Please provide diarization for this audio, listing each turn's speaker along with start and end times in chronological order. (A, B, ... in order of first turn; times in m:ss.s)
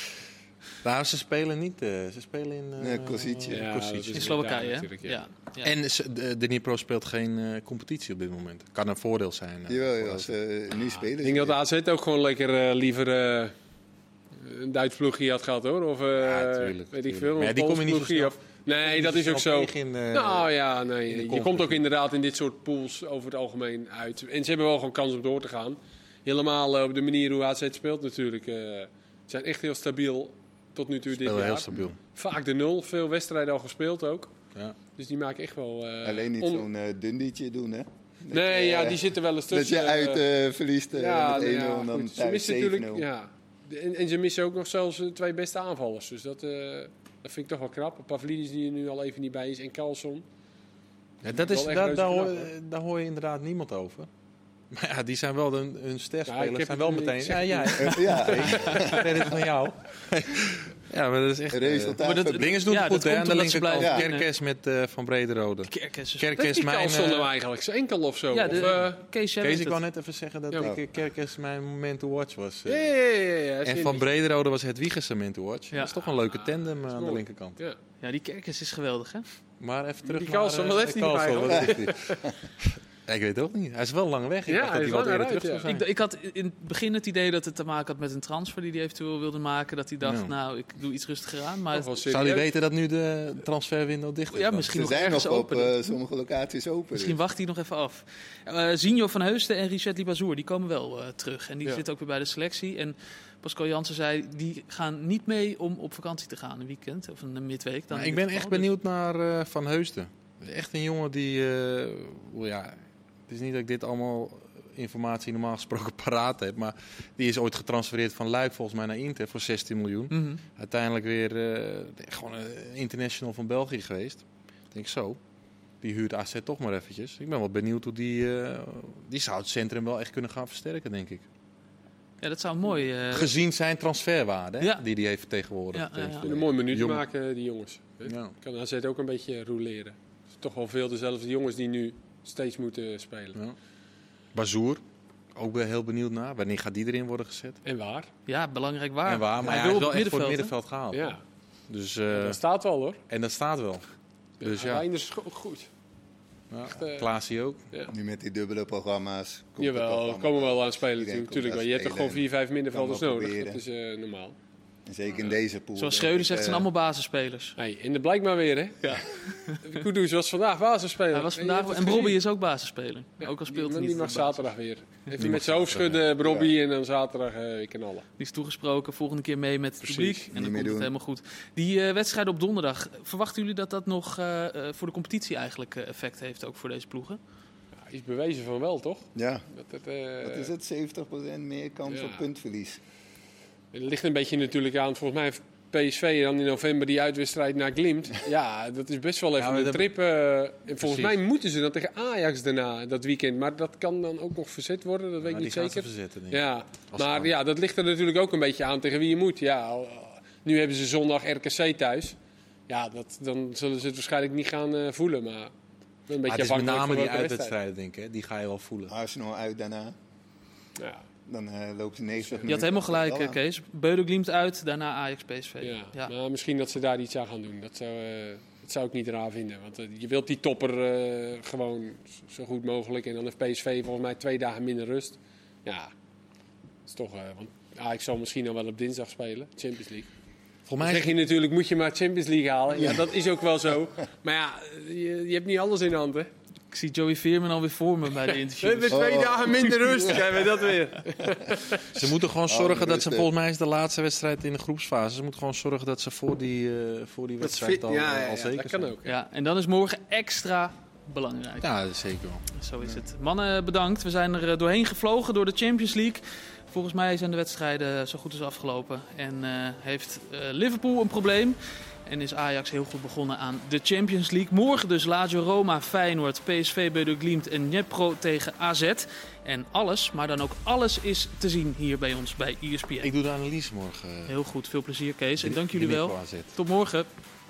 0:00.8-0:04.3 A
0:02.8-0:03.6 B
0:03.5-0:05.2 C
0:04.1-0:05.7 D
0:05.6-0:10.3 A
0:09.7-0:11.6 B
0:11.2-0:13.5 C
0:14.4-0:34.3 C
0:16.2-0:20.5 A
0:21.1-0:21.8 A
0:31.2-0:32.0 A
0:35.0-0:36.7 C
0:36.0-0:43.0 B
0:38.3-0:40.2 C
0:40.9-0:50.2 C
0:51.2-0:54.1 A
0:51.4-0:52.5 C
0:54.7-1:07.3 A
0:56.3-0:59.3 C
0:57.8-0:59.3 B
1:01.5-1:02.5 B
1:02.0-1:04.2 D
1:05.7-1:06.3 D
1:06.4-1:09.0 C
1:08.3-1:09.8 D
1:09.4-1:12.9 A
1:12.7-1:14.0 C
1:13.6-1:17.6 A
1:16.3-1:17.8 C
1:18.0-1:19.2 D
1:19.6-1:25.8 A
1:20.0-1:22.2 C
1:21.5-1:22.3 B
1:24.5-1:25.6 C
1:25.6-1:31.9 D
1:30.0-1:30.3 A
1:31.7-1:32.5 C
1:32.1-1:34.8 A
1:34.3-1:35.8 D
1:34.7-1:37.2 B
1:36.9-1:48.7 D
1:47.9-2:05.2 A
2:00.1-2:00.4 D
2:05.8-2:11.2 A
2:12.2-2:13.3 D
2:13.1-2:17.0 A
2:15.7-2:16.3 D
2:16.2-2:23.4 C
2:18.0-2:18.3 A
2:24.3-2:24.8 A
2:25.3-2:27.6 A
2:27.6-2:28.1 C
2:28.2-2:30.5 D
2:29.0-2:32.4 A
2:30.9-2:31.2 C
2:32.1-2:33.0 C
2:33.1-2:33.8 A
2:34.4-2:34.8 A
2:34.4-2:35.7 C
2:36.5-2:37.6 A
2:36.7-2:37.1 C
2:37.9-2:43.6 B
2:39.6-2:44.4 C
2:44.9-2:46.6 B
2:45.8-2:47.6 D
2:47.6-2:49.1 C
2:48.8-2:49.8 D
2:49.6-2:52.2 C
2:51.1-2:54.5 D
2:53.2-2:58.0 C
2:55.2-2:56.0 A
2:56.2-2:56.5 B
2:58.2-3:07.2 D
2:59.9-3:00.2 C
3:00.3-3:00.9 B
3:07.8-3:10.5 C
3:09.2-3:09.4 B
3:10.2-3:12.8 B
3:11.9-3:12.2 C
3:13.7-3:35.5 C
3:19.4-3:19.9 A
3:20.8-3:21.1 A
3:25.2-3:27.3 A
3:36.1-3:37.5 C
3:36.2-3:38.9 A
3:38.9-3:39.9 B
3:40.8-3:41.0 C
3:41.3-3:43.4 B
3:42.2-3:42.4 C
3:42.4-3:46.1 D
3:45.6-3:55.9 C
3:56.8-4:00.1 C
4:00.7-4:01.1 A
4:00.8-4:06.3 C
4:06.7-4:09.0 D
4:08.6-4:12.0 C
4:08.9-4:10.7 B
4:11.9-4:18.9 A
4:12.5-4:13.3 B
4:17.4-4:19.2 C
4:19.0-4:21.7 D
4:21.6-4:22.4 A
4:22.5-4:43.1 D
4:43.0-4:44.3 A
4:44.3-4:47.1 D
4:45.4-4:46.5 A